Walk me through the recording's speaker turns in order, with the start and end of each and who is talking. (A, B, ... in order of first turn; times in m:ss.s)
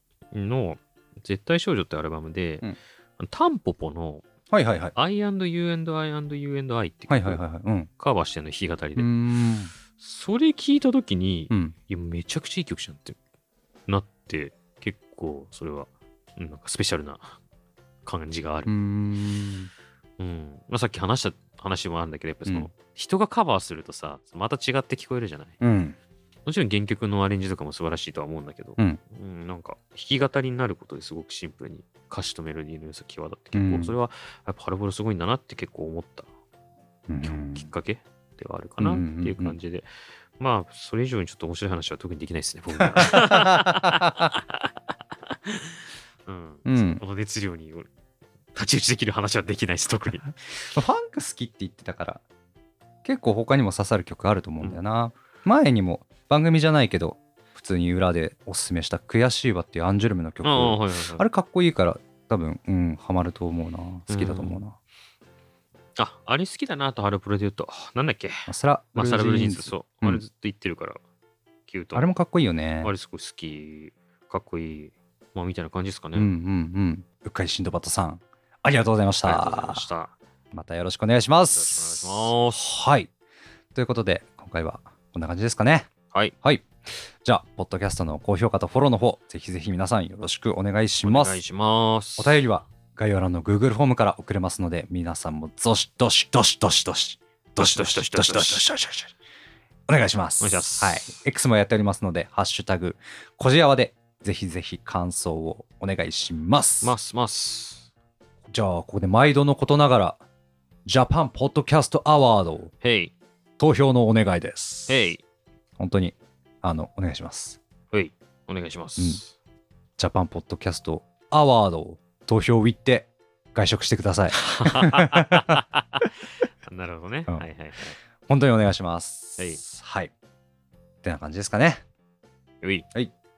0:00.3-0:04.2 A
0:04.5-0:04.9 B
0:05.0-0:07.4 A
0:07.1-0:07.9 B
0:08.0-0:09.1 A
0:09.0-0:09.7 B
0:10.0-0:13.2 A
0:13.9-0:17.4 A
0:18.0-0:18.7 A
0:18.7-0:19.7 B
0:20.2-0:25.6 A
0:25.6-0:26.0 B
0:26.5-0:36.3 A
0:33.6-0:34.0 B
0:37.1-0:37.7 B
0:37.2-0:39.9 A
0:38.8-0:39.6 B
0:40.4-0:44.7 A
0:43.0-0:44.3 B
0:45.3-0:47.9 A
0:46.7-0:47.0 B
0:48.6-0:50.4 A
0:50.7-0:52.2 B
0:53.0-1:04.8 B
1:00.4-1:01.2 A
1:04.1-1:04.6 A
1:06.0-1:11.0 A
1:08.5-1:10.2 B
1:11.7-1:12.1 A
1:12.0-1:12.9 B
1:12.8-1:16.3 A
1:16.2-1:19.8 B
1:19.2-1:20.2 A
1:20.5-1:23.1 B
1:21.5-1:22.7 A
1:23.8-1:25.9 B
1:26.4-1:31.4 B
1:31.0-1:32.4 A
1:32.2-1:39.1 B
1:37.6-1:38.7 A
1:39.9-1:47.0 B
1:40.4-1:41.2 A
1:46.8-1:47.9 A
1:48.5-1:50.2 B
1:50.9-1:52.7 B
1:52.8-1:53.1 A
1:53.6-1:55.1 B
1:54.9-1:55.2 A
1:55.8-1:57.6 B
1:57.9-1:59.3 A
2:00.0-2:05.6 B
2:04.3-2:06.1 A
2:06.7-2:08.0 A
2:08.3-2:10.1 B
2:11.0-2:11.8 B